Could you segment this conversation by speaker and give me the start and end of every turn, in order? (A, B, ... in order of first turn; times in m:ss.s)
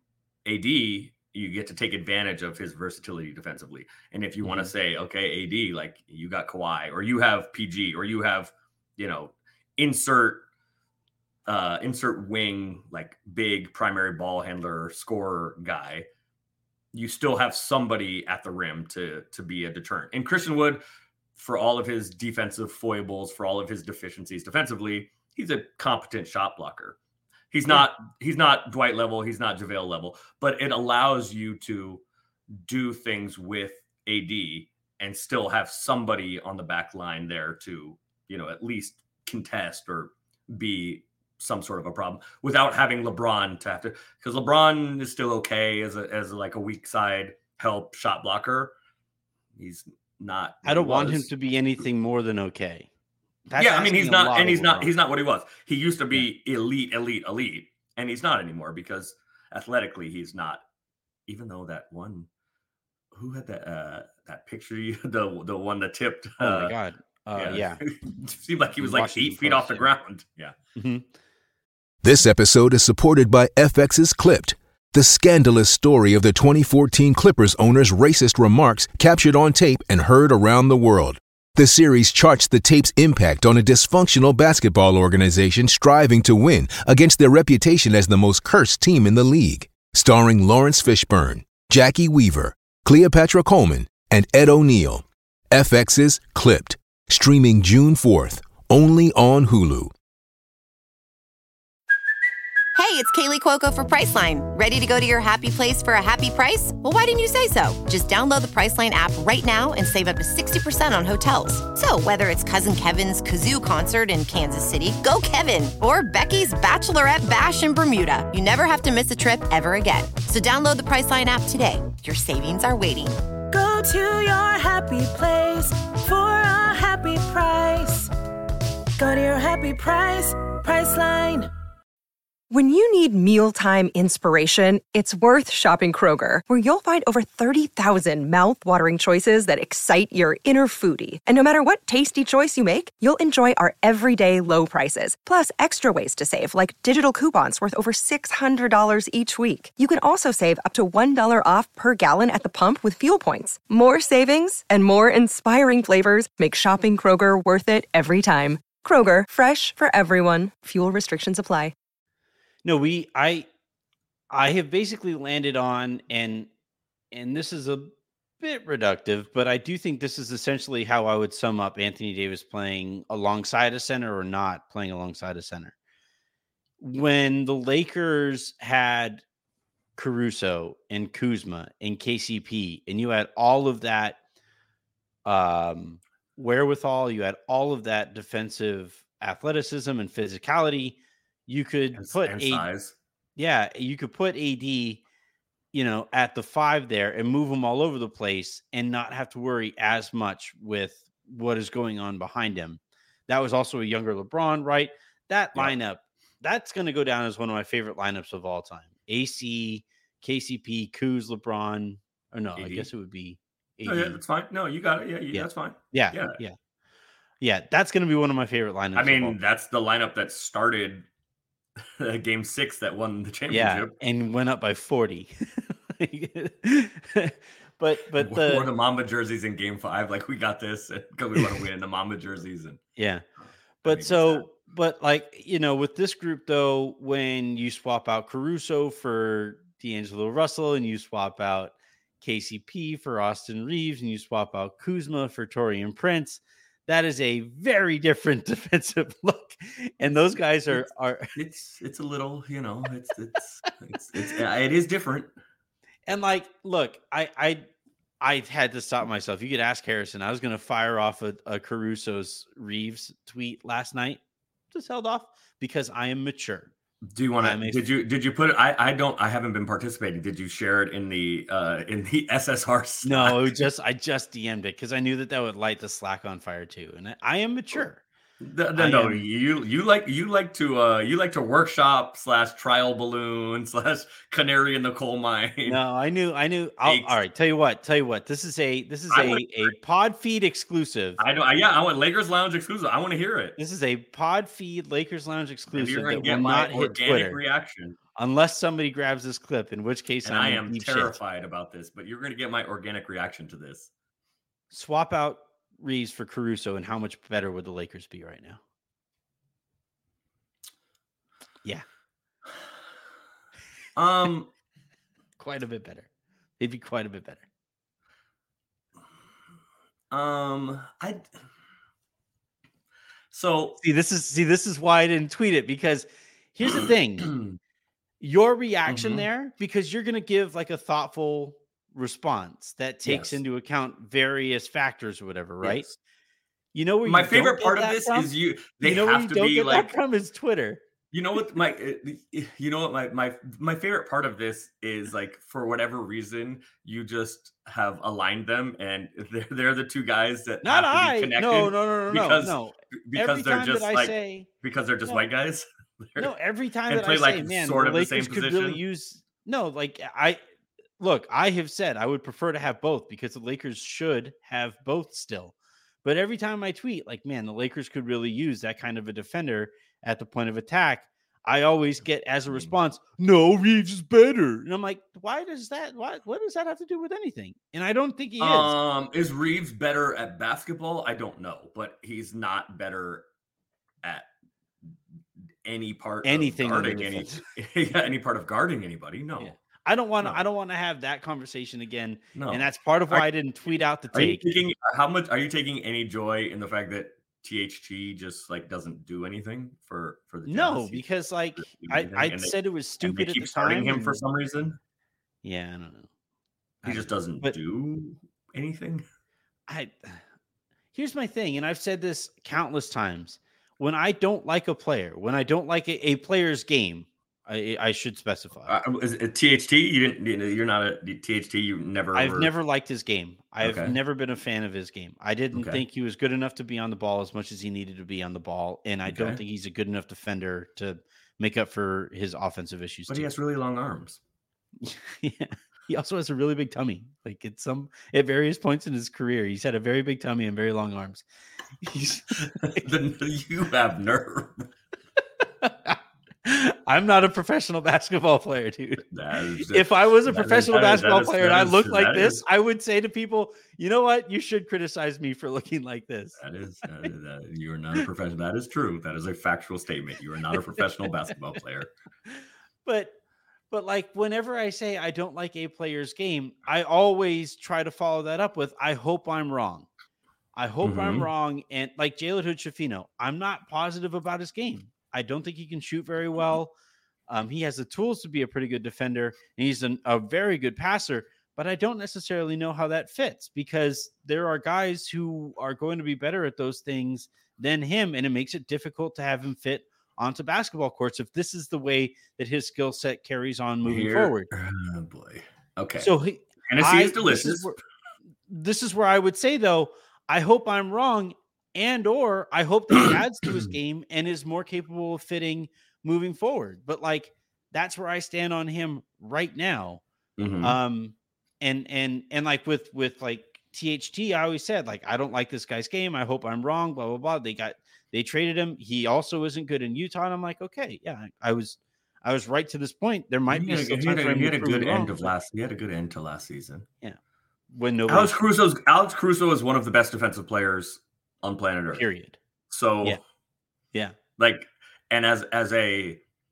0:00.4-0:10.5 A
0:04.4-0:04.7 B
0:11.5-0:16.1 A
0:16.9-0:20.8 A
0:21.4-0:27.0 A
0:27.5-0:32.0 A
0:32.6-0:48.7 A
0:49.6-0:51.3 A
0:50.6-0:52.9 B
0:53.5-0:54.9 B
0:53.6-1:00.6 A
1:01.3-1:02.3 A
1:03.1-1:06.7 A
1:06.4-1:07.8 B
1:07.4-1:10.6 A
1:08.8-1:09.9 B
1:10.8-1:11.1 B
1:12.0-1:39.9 C
1:42.8-2:03.2 D
2:03.5-2:08.1 E
2:09.0-2:11.5 E
2:12.5-2:41.7 F
2:42.6-2:43.5 B
2:44.3-2:46.5 B
2:47.1-2:55.8 B
2:56.8-2:59.2 B
3:00.0-3:04.2 B
3:05.2-3:12.7 B
3:12.0-3:13.0 A
3:13.4-3:15.0 B
3:15.7-3:34.2 B
3:32.6-3:32.9 A
3:33.8-3:36.4 A
3:35.3-3:36.6 B
3:37.4-3:39.4 B
3:39.0-3:41.0 A
3:42.0-3:43.9 A
3:43.5-3:48.7 B
3:48.2-3:52.8 A
3:53.0-3:53.2 B
3:53.8-3:54.5 A
3:53.8-4:11.3 B
4:11.4-4:15.3 A
4:16.1-4:17.6 B
4:18.2-4:24.2 B
4:24.7-4:26.7 B
4:27.1-4:33.6 A
4:27.4-4:27.8 B
4:33.0-4:38.0 B
4:38.4-4:45.8 A
4:38.8-4:39.2 B
4:45.7-4:51.2 B
4:46.8-4:47.2 A
4:49.1-4:49.7 A
4:51.2-4:53.6 A
4:53.6-4:57.4 B
4:55.7-4:58.0 A
4:58.2-5:01.2 B
5:00.2-5:03.9 A
5:04.7-5:08.6 B
5:14.0-5:14.5 A
5:15.4-5:16.1 B
5:16.6-5:17.4 B
5:20.1-5:21.2 A
5:23.3-5:23.8 A
5:23.8-5:27.4 B
5:27.3-5:27.6 A
5:28.2-5:35.9 B
5:28.9-5:29.3 A
5:33.0-5:33.4 A
5:35.6-5:36.0 A
5:36.7-5:38.3 B
5:37.0-5:40.0 A
5:38.8-5:40.8 B
5:41.1-5:56.3 A
5:50.6-5:54.5 B
5:56.2-6:00.4 B
5:56.9-5:58.8 A
6:01.0-6:18.7 B
6:12.5-6:12.7 A
6:18.4-6:23.3 A
6:25.6-6:29.5 A
6:26.2-6:27.4 B
6:29.4-6:34.6 B
6:32.4-6:33.3 A
6:34.1-6:41.0 A
6:40.5-6:44.2 B
6:41.6-6:44.8 A
6:45.4-6:46.1 B
6:46.8-6:47.6 B
6:46.8-6:49.0 A
6:49.7-6:50.2 B
6:50.9-6:58.8 B
6:58.7-7:02.5 A
7:02.2-7:13.3 B
7:03.6-7:04.0 A
7:05.5-7:05.8 A
7:09.1-7:09.4 A
7:13.1-7:14.2 A
7:14.8-7:21.2 B
7:21.8-7:22.8 B
7:22.4-7:24.7 A
7:25.6-7:29.0 B
7:29.1-7:32.4 A
7:29.7-7:36.4 B
7:36.4-7:41.9 A
7:42.3-7:43.1 B
7:43.7-7:49.9 B
7:50.6-7:56.7 B
7:50.8-7:51.3 A
7:57.3-8:14.5 B
8:13.8-8:16.1 A
8:16.0-8:17.8 B
8:16.7-8:17.8 A
8:18.5-8:30.0 B
8:30.4-8:30.8 A
8:30.6-8:45.3 B
8:43.5-8:46.9 A
8:47.7-8:48.3 B
8:48.1-8:52.0 A
8:51.9-8:52.4 B
8:52.7-8:53.2 A
8:54.4-8:56.2 A